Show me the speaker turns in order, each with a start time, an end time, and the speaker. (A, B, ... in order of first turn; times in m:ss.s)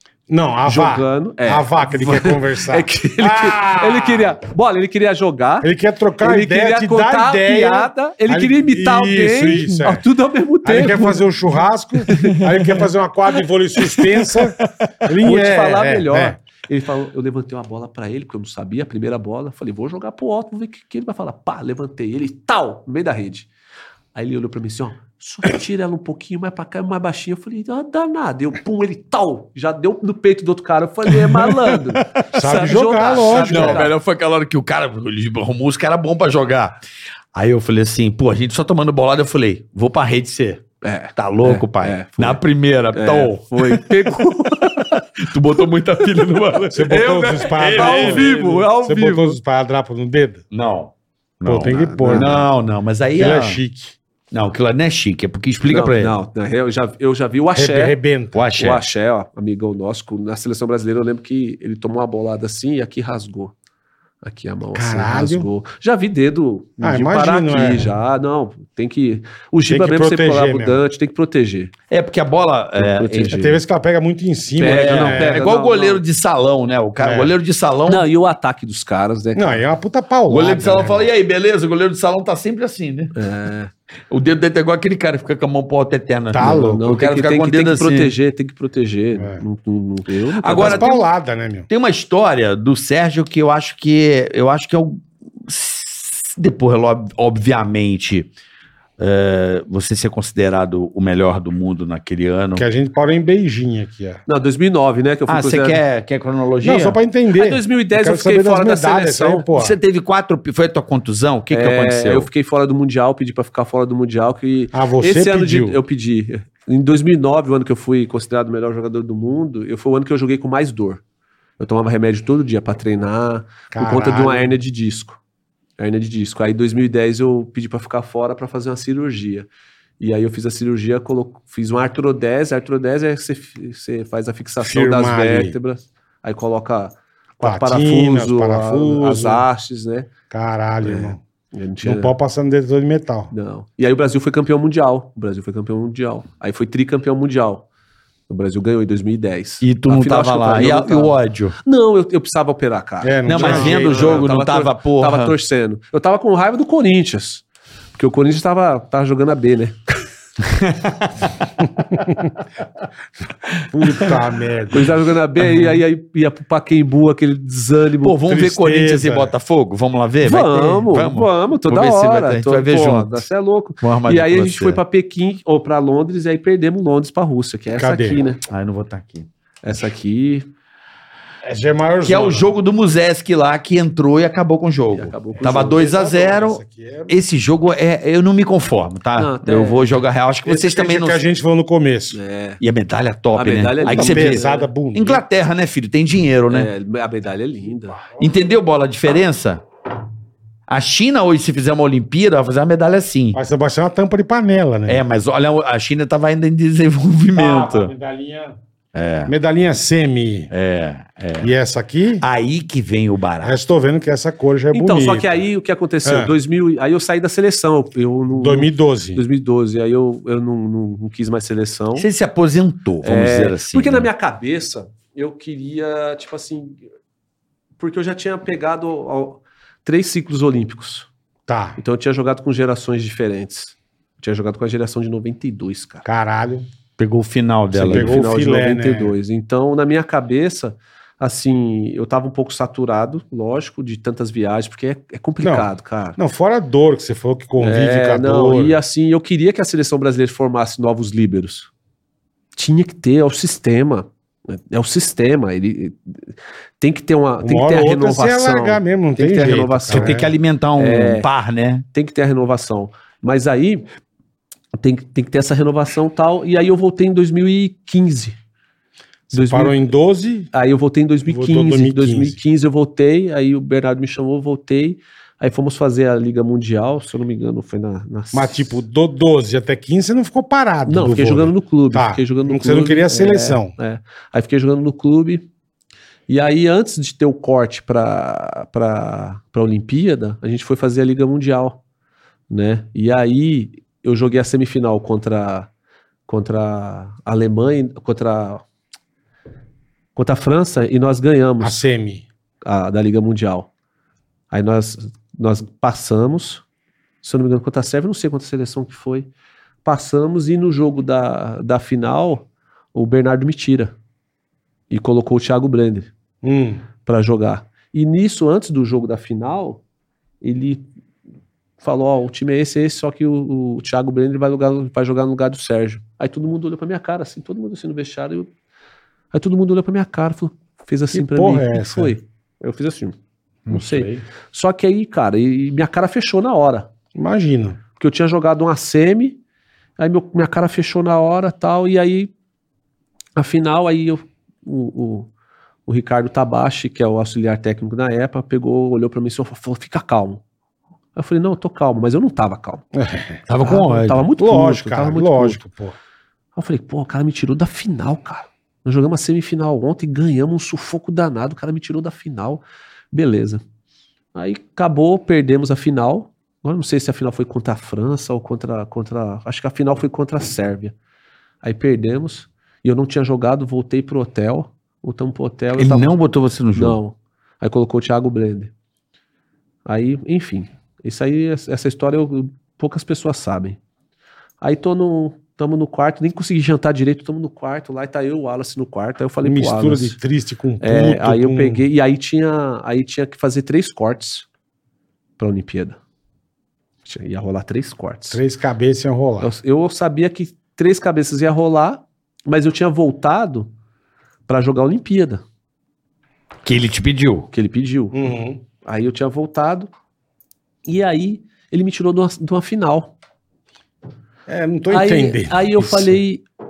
0:00.3-0:04.3 A
0:00.7-0:05.7 B
0:05.6-0:10.0 A
0:06.2-0:11.3 B
0:10.6-0:16.4 A
0:12.0-0:12.7 B
0:13.8-0:14.4 B
0:15.2-0:23.5 B
0:24.2-0:33.9 B
0:31.1-0:32.3 C
0:32.3-0:33.9 A
0:33.1-0:36.8 C
0:37.3-0:40.6 C
0:40.8-0:42.4 B
0:41.2-0:44.6 C
0:42.9-0:45.0 B
0:45.2-0:48.6 C
0:46.7-0:50.4 A
0:46.9-0:49.4 B
0:50.5-0:53.6 C
0:51.4-0:52.5 A
0:51.6-0:52.4 B
0:53.2-0:54.0 A
0:54.3-0:56.2 C
0:55.7-0:58.0 B
0:57.6-0:58.4 A
0:58.3-0:58.8 C
0:58.6-1:03.5 B
1:04.2-1:11.7 B
1:04.7-1:05.5 A
1:06.8-1:07.9 A
1:09.7-1:10.8 A
1:11.9-1:13.6 C
1:12.8-1:13.4 B
1:13.3-1:15.4 A
1:14.6-1:16.0 B
1:14.6-1:18.1 C
1:17.0-1:17.3 A
1:17.9-1:19.6 B
1:19.4-1:21.1 A
1:20.3-1:23.2 C
1:23.2-1:23.7 B
1:24.1-1:28.1 C
1:26.3-1:26.9 A
1:26.4-1:30.9 B
1:29.2-1:29.4 A
1:30.4-1:31.0 C
1:30.5-1:31.7 A
1:31.7-1:38.3 C
1:39.0-1:42.6 C
1:42.6-1:44.2 A
1:44.3-1:45.8 B
1:45.3-1:47.0 C
1:46.6-1:49.8 A
1:47.4-1:49.4 B
1:49.5-1:52.3 C
1:51.5-2:01.0 B
1:54.7-1:55.8 A
2:01.6-2:05.2 B
2:03.7-2:04.6 A
2:05.8-2:09.5 B
2:10.0-2:20.1 B
2:14.6-2:15.6 A
2:17.4-2:19.4 A
2:20.3-2:21.2 A
2:20.8-2:22.1 B
2:21.8-2:23.3 A
2:23.3-2:27.7 B
2:28.3-2:40.0 B
2:29.6-2:31.6 C
2:33.0-2:34.2 A
2:33.3-2:35.3 C
2:40.4-2:41.5 C
2:42.0-2:42.3 A
2:43.7-2:44.8 A
2:43.9-2:44.2 C
2:44.7-2:48.2 B
2:45.5-2:45.8 C
2:48.0-2:53.3 C
2:48.3-2:49.3 A
2:50.2-2:58.4 B
2:53.8-2:54.8 C
2:57.8-2:58.2 A
2:58.5-2:59.3 C
2:59.6-3:00.5 B
3:01.4-3:02.5 A
3:02.0-3:11.2 C
3:04.9-3:05.9 B
3:05.4-3:07.2 A
3:09.2-3:10.0 B
3:10.5-3:12.2 A
3:12.1-3:12.6 B
3:12.6-3:16.7 C
3:13.3-3:14.7 B
3:13.9-3:15.2 A
3:16.5-3:18.0 B
3:18.2-3:19.6 C
3:20.7-3:23.4 C
3:23.3-3:25.0 A
3:24.9-3:27.9 C
3:27.3-3:28.6 A
3:28.9-3:29.3 C
3:29.3-3:30.5 A
3:30.5-3:31.5 C
3:31.4-3:32.2 A
3:32.2-3:33.6 C
3:33.4-3:35.4 A
3:34.7-3:42.1 B
3:36.0-3:36.3 A
3:38.4-3:39.2 A
3:42.0-3:44.1 C
3:43.0-3:46.8 B
3:47.8-3:51.1 B
3:51.5-3:51.8 A
3:51.8-3:56.0 B
3:56.0-3:56.7 A
3:57.0-3:58.2 C
3:57.7-3:59.2 A
3:57.8-4:06.2 B
4:05.4-4:08.8 A
4:07.6-4:11.7 B
4:12.6-4:21.3 B
4:17.4-4:20.3 A
4:19.9-4:21.8 C
4:21.9-4:23.9 B
4:24.8-4:28.4 B
4:29.3-4:30.5 A
4:29.3-4:29.9 B
4:30.5-4:38.8 B
4:31.3-4:32.4 A
4:38.3-4:43.7 A
4:40.9-4:45.5 B
4:46.3-4:51.8 B
4:52.5-4:55.7 B
4:56.3-4:58.6 B
5:00.2-5:01.8 B
5:01.6-5:02.2 A
5:02.6-5:03.7 B
5:04.5-5:06.6 B
5:07.2-5:09.3 B
5:09.8-5:13.9 B
5:14.9-5:16.1 B
5:16.4-5:16.8 A
5:17.0-5:19.8 B
5:20.4-5:20.8 B
5:21.8-5:28.5 B
5:29.3-5:33.2 B
5:31.1-5:32.2 A
5:33.7-5:34.2 C
5:33.7-5:36.9 B
5:37.2-5:37.8 A
5:38.0-5:39.4 B
5:40.0-5:42.3 B
5:43.4-5:45.3 B
5:45.9-5:50.4 B
5:51.2-5:52.9 B
5:53.0-5:53.4 A
5:53.5-5:54.2 C
5:53.6-5:55.6 B
5:54.4-5:56.0 A
5:56.6-6:03.6 B
6:04.3-6:11.0 B
6:11.6-6:16.1 B
6:15.8-6:17.0 C
6:16.8-6:18.7 B
6:19.9-6:23.8 B
6:24.6-6:30.2 B
6:29.4-6:31.9 A
6:30.8-6:34.5 B
6:35.4-6:36.0 B
6:37.0-6:38.4 B
6:38.3-6:39.5 A
6:39.4-6:43.7 B
6:44.5-6:45.4 B
6:46.6-6:47.5 C
6:47.5-6:48.2 B
6:48.1-6:48.6 A
6:48.8-6:49.9 B
6:50.9-6:53.1 B
6:54.5-6:56.2 A
6:54.9-6:56.4 B